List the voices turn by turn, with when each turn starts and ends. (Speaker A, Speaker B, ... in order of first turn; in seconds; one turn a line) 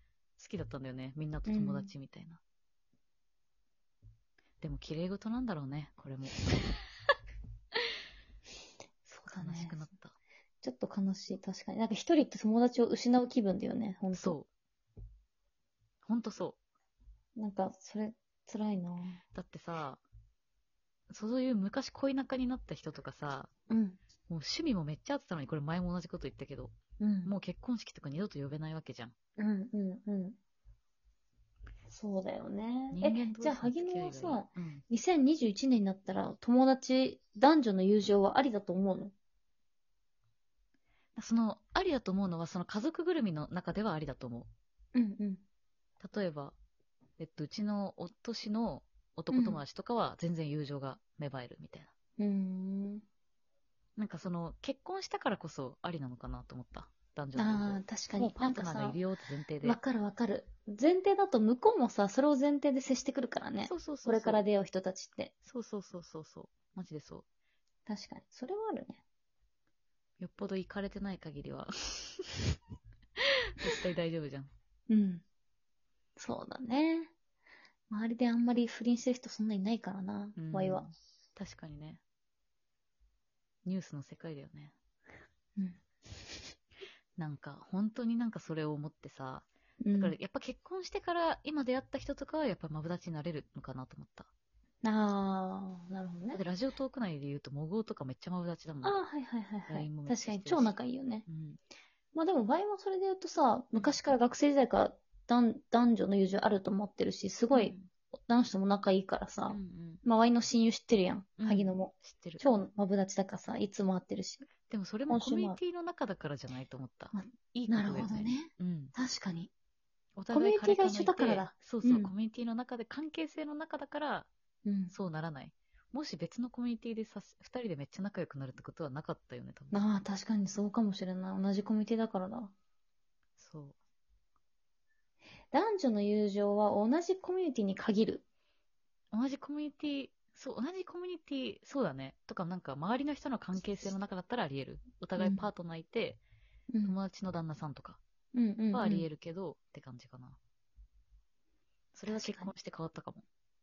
Speaker A: 0.4-2.4
Speaker B: 1.4-1.9
Speaker A: 4.6-6.8
Speaker B: 9.1-9.8
Speaker A: 9.2-10.1
Speaker B: 10.6-14.3
Speaker A: 14.1-14.5
Speaker A: 16.0-16.6
Speaker B: 17.4-19.2
Speaker A: 19.3-20.0
Speaker A: 21.1-23.5
Speaker B: 23.7-24.0
Speaker A: 24.3-26.7
Speaker B: 27.0-27.3
Speaker A: 27.2-29.1
Speaker B: 29.4-30.4
Speaker B: 31.9-39.1
Speaker A: 32.9-34.8
Speaker A: 41.1-44.5
Speaker B: 44.9-45.4
Speaker A: 46.0-46.5
Speaker A: 47.2-51.9
Speaker B: 49.3-49.6
Speaker B: 52.2-53.0
Speaker A: 54.0-59.8
Speaker B: 57.4-59.0
Speaker B: 59.6-65.3
Speaker A: 63.6-64.4
Speaker A: 65.4-67.2
Speaker B: 67.9-69.0
Speaker A: 70.2-72.3
Speaker A: 73.6-74.5
Speaker B: 74.9-75.2
Speaker B: 76.2-77.1
Speaker B: 77.9-80.8
Speaker A: 80.3-82.0
Speaker A: 83.6-84.7
Speaker A: 87.2-94.3
Speaker B: 89.8-90.2
Speaker B: 94.8-96.4
Speaker A: 96.3-99.0
Speaker B: 98.8-101.2
Speaker A: 99.7-100.7
Speaker A: 101.2-101.6
Speaker B: 102.1-107.8
Speaker A: 107.5-107.9
Speaker B: 108.3-114.5
Speaker A: 109.5-110.0
Speaker A: 111.4-112.5
Speaker A: 114.7-118.9
Speaker B: 115.1-115.6
Speaker B: 117.1-119.5
Speaker A: 120.2-124.3
Speaker B: 120.3-122.1
Speaker B: 124.6-124.9
Speaker A: 124.9-129.8
Speaker B: 129.7-132.5
Speaker A: 133.4-133.8
Speaker B: 135.5-138.2
Speaker A: 139.1-146.2
Speaker B: 145.2-145.4
Speaker B: 146.7-147.0
Speaker A: 146.8-148.0
Speaker B: 148.3-149.1
Speaker A: 148.7-150.4
Speaker A: 151.9-153.2
Speaker B: 152.1-152.5